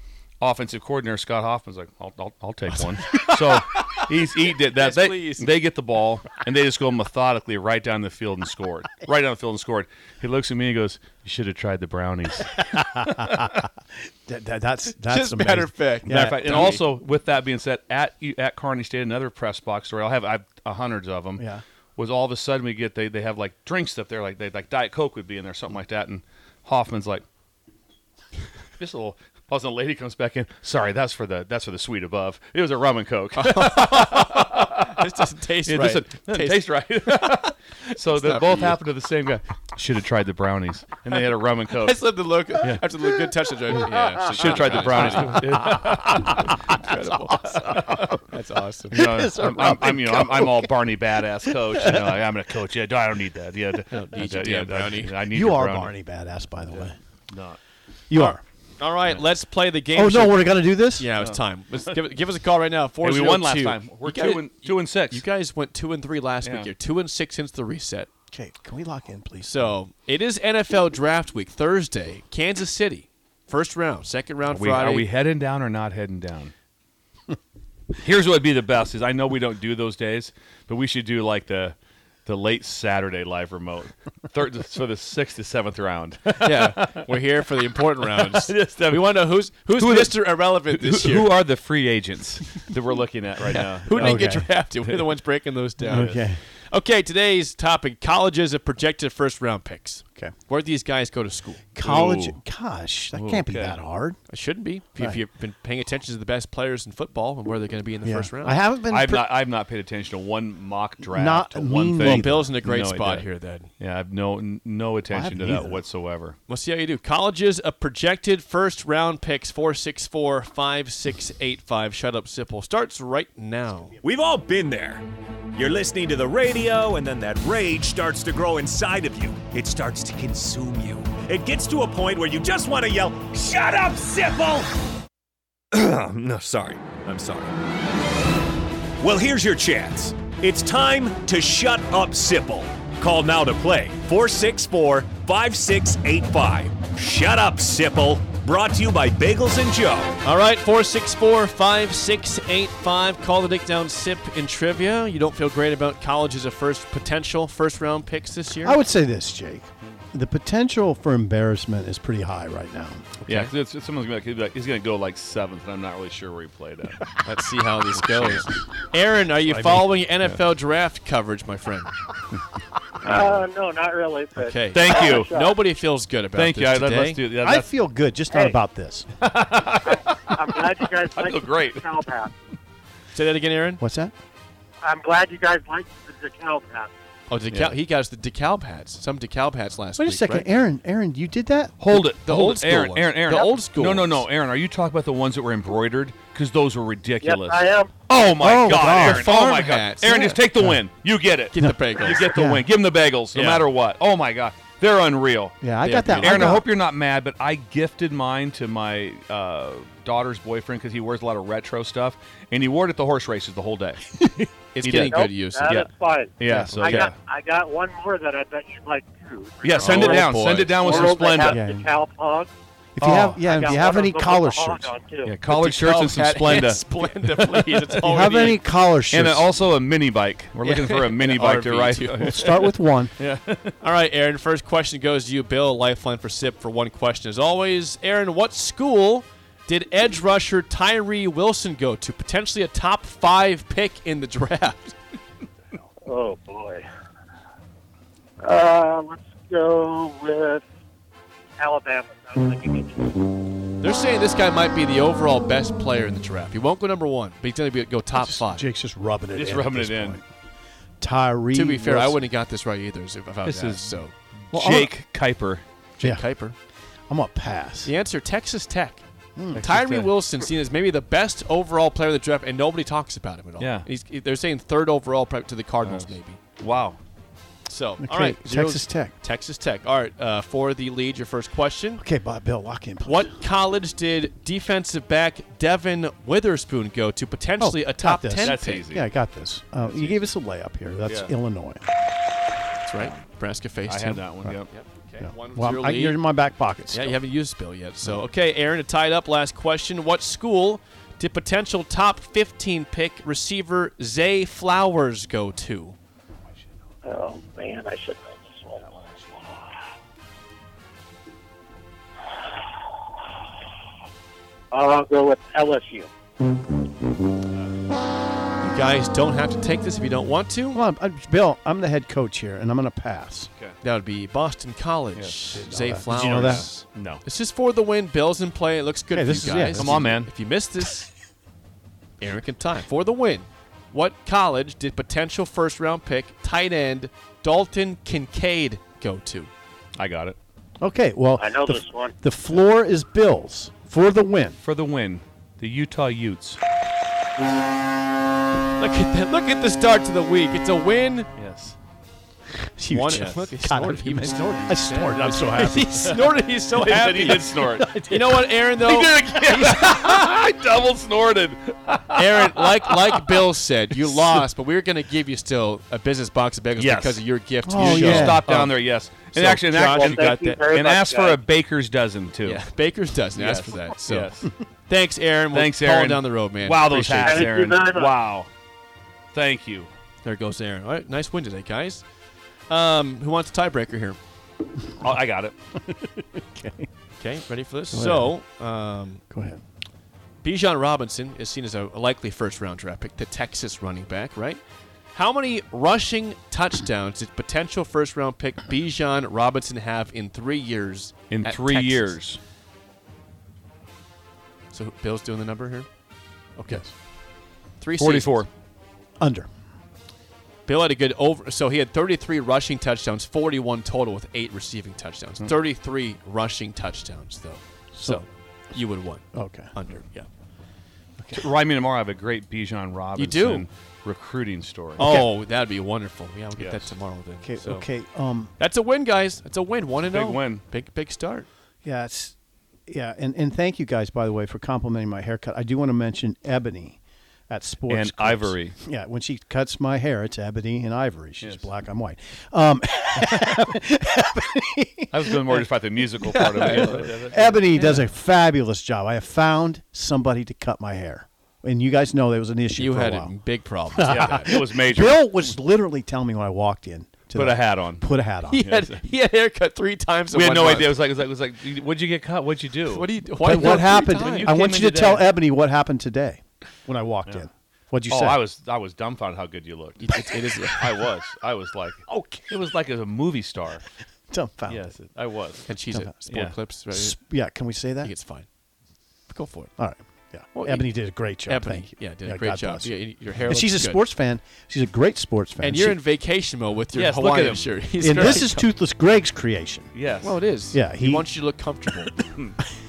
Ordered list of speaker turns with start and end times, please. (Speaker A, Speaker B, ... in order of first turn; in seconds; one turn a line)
Speaker A: 0.4-13.5
Speaker B: 3.6-5.5
Speaker C: 12.5-16.8
Speaker B: 15.1-16.7
Speaker A: 16.1-21.4
Speaker C: 21.4-21.6
Speaker A: 22.0-27.2
Speaker A: 28.8-35.0
Speaker B: 33.4-36.6
Speaker A: 35.6-42.0
Speaker B: 38.1-38.8
Speaker B: 41.8-45.5
Speaker C: 43.9-48.2
Speaker A: 44.2-46.6
Speaker B: 46.3-49.0
Speaker A: 47.6-48.0
Speaker C: 48.9-50.8
Speaker A: 48.9-55.9
Speaker C: 51.4-52.2
Speaker B: 53.9-55.1
Speaker C: 55.3-57.0
Speaker A: 56.7-57.6
Speaker C: 58.1-58.4
Speaker B: 58.1-68.1
Speaker C: 59.9-61.1
Speaker A: 61.2-61.9
Speaker A: 63.0-65.2
Speaker A: 66.4-66.7
Speaker C: 68.3-69.8
Speaker B: 69.5-75.1
Speaker A: 74.5-76.5
Speaker A: 78.0-87.1
Speaker B: 86.4-91.4
Speaker A: 88.0-94.3
Speaker B: 93.4-101.7
Speaker C: 93.9-94.5
Speaker A: 95.8-96.2
Speaker C: 95.9-96.4
Speaker C: 101.7-104.2
Speaker A: 101.8-102.4
Speaker A: 103.1-103.8
Speaker B: 104.3-108.6
Speaker C: 108.0-109.3
Speaker A: 108.9-113.2
Speaker C: 111.0-112.5
Speaker B: 112.0-113.7
Speaker A: 113.8-116.4
Speaker C: 115.1-115.8
Speaker B: 116.5-124.0
Speaker D: 124.0-125.0
Speaker E: 125.5-134.7
Speaker D: 125.7-127.7
Speaker D: 128.4-133.3
Speaker D: 133.8-134.4
Speaker D: 135.7-137.5
Speaker D: 139.0-150.1
Speaker E: 149.5-150.0
Speaker B: 150.2-158.8
Speaker C: 158.6-163.1
Speaker B: 163.2-163.5
Speaker A: 163.3-167.0
Speaker B: 167.2-171.9
Speaker A: 167.9-168.5
Speaker C: 169.5-169.9
Speaker E: 173.0-175.6
Speaker A: 173.0-173.4
Speaker B: 174.4-177.2
Speaker A: 174.7-175.3
Speaker A: 176.3-177.7
Speaker C: 177.4-179.1
Speaker E: 178.3-178.6
Speaker A: 179.2-180.6
Speaker E: 179.8-182.3
Speaker A: 181.1-181.9
Speaker B: 183.1-183.8
Speaker C: 183.8-184.1
Speaker E: 184.8-186.9
Speaker B: 187.3-190.5
Speaker A: 187.5-187.8
Speaker C: 190.0-192.0
Speaker A: 191.8-205.6
Speaker B: 192.2-194.2
Speaker E: 197.2-197.9
Speaker C: 198.4-199.3
Speaker B: 198.9-200.4
Speaker B: 201.5-202.3
Speaker C: 202.2-202.6
Speaker B: 203.3-203.7
Speaker C: 205.6-206.7
Speaker B: 205.8-206.6
Speaker A: 206.1-217.1
Speaker B: 214.7-215.8
Speaker E: 215.0-220.3
Speaker C: 216.5-216.9
Speaker B: 216.7-217.0
Speaker A: 219.6-221.6
Speaker B: 219.7-220.9
Speaker E: 220.8-222.5
Speaker C: 221.5-221.9
Speaker C: 222.9-224.9
Speaker A: 223.0-223.4
Speaker E: 223.4-225.3
Speaker A: 225.2-228.5
Speaker B: 225.5-228.6
Speaker C: 228.0-229.5
Speaker A: 229.1-232.6
Speaker B: 230.6-232.7
Speaker C: 232.2-233.1
Speaker A: 233.2-233.7
Speaker B: 233.8-244.9
Speaker E: 246.0-246.8
Speaker E: 248.4-250.6
Speaker E: 251.6-253.3
Speaker B: 253.8-258.7
Speaker C: 258.2-260.3
Speaker A: 259.3-260.2
Speaker C: 261.0-262.3
Speaker B: 261.5-264.1
Speaker A: 263.4-265.6
Speaker C: 264.5-264.9
Speaker B: 266.0-266.6
Speaker C: 267.1-267.9
Speaker B: 267.8-269.0
Speaker C: 269.4-269.7
Speaker A: 269.5-270.1
Speaker B: 269.6-276.4
Speaker A: 273.6-273.9
Speaker A: 275.8-277.0
Speaker B: 277.7-282.0
Speaker C: 278.0-279.1
Speaker C: 282.0-283.4
Speaker B: 283.0-288.9
Speaker C: 287.6-291.8
Speaker A: 288.4-289.1
Speaker A: 289.9-290.2
Speaker A: 291.1-291.3
Speaker B: 292.8-296.2
Speaker A: 293.9-294.7
Speaker C: 295.2-297.2
Speaker B: 296.9-306.0
Speaker E: 307.0-308.9
Speaker A: 308.8-309.2
Speaker E: 309.4-309.7
Speaker E: 314.7-316.1
Speaker B: 318.6-320.8
Speaker C: 320.7-323.5
Speaker B: 323.8-331.1
Speaker A: 325.1-325.5
Speaker C: 325.5-326.7
Speaker A: 326.1-327.2
Speaker C: 329.1-330.1
Speaker A: 329.7-330.3
Speaker B: 332.2-339.5
Speaker A: 339.9-340.4
Speaker C: 340.8-344.6
Speaker E: 341.4-342.1
Speaker A: 344.6-346.6
Speaker B: 348.8-351.3
Speaker A: 351.4-351.8
Speaker C: 352.8-356.2
Speaker B: 352.9-357.6
Speaker A: 356.7-363.2
Speaker C: 357.6-358.3
Speaker B: 358.1-360.2
Speaker B: 362.1-368.7
Speaker A: 364.0-364.4
Speaker A: 366.8-367.2
Speaker C: 367.6-368.5
Speaker A: 367.8-372.6
Speaker B: 369.3-370.6
Speaker E: 369.8-371.4
Speaker B: 372.4-374.3
Speaker A: 373.3-374.5
Speaker B: 374.9-377.5
Speaker A: 375.5-378.5
Speaker E: 377.2-378.1
Speaker A: 379.3-379.9
Speaker B: 380.2-382.0
Speaker B: 382.7-384.2
Speaker A: 385.0-385.6
Speaker C: 385.8-386.9
Speaker B: 387.2-389.2
Speaker C: 387.9-388.3
Speaker C: 389.3-389.6
Speaker B: 390.4-394.6
Speaker B: 395.1-402.2
Speaker A: 401.3-402.4
Speaker B: 404.7-405.9
Speaker B: 406.6-406.9
Speaker B: 407.8-408.4
Speaker A: 408.0-408.5
Speaker C: 409.2-409.5
Speaker B: 410.6-420.3
Speaker C: 417.9-418.2
Speaker C: 419.3-419.7
Speaker C: 421.2-421.5
Speaker A: 421.3-425.2
Speaker B: 423.1-423.6
Speaker B: 425.0-427.9
Speaker C: 425.0-425.3
Speaker A: 426.6-426.9
Speaker C: 427.4-428.5
Speaker B: 428.6-431.5
Speaker A: 430.1-430.6
Speaker C: 431.8-432.3
Speaker C: 432.9-445.6
Speaker A: 437.9-438.8
Speaker A: 441.4-441.6
Speaker A: 445.1-448.0
Speaker B: 446.2-447.2
Speaker C: 446.4-453.3
Speaker B: 447.8-448.0
Speaker B: 452.8-454.5
Speaker C: 453.9-458.8
Speaker A: 454.0-455.3
Speaker A: 457.3-458.0
Speaker B: 458.5-461.0
Speaker A: 458.6-459.0
Speaker A: 460.3-465.3
Speaker B: 462.9-464.6
Speaker C: 463.4-468.4
Speaker A: 468.1-473.8
Speaker B: 470.0-471.1
Speaker C: 474.3-474.9
Speaker A: 474.7-475.7
Speaker B: 475.7-477.2
Speaker C: 475.9-476.2
Speaker A: 476.3-476.6
Speaker C: 476.9-478.1
Speaker B: 478.0-478.4
Speaker B: 479.3-479.7
Speaker C: 479.8-482.9
Speaker B: 480.5-480.9
Speaker B: 481.4-484.0
Speaker C: 483.4-486.0
Speaker B: 485.6-488.7
Speaker A: 486.9-488.4
Speaker C: 488.0-489.9
Speaker A: 489.9-490.4
Speaker B: 490.2-492.1
Speaker C: 490.7-491.3
Speaker A: 492.1-492.6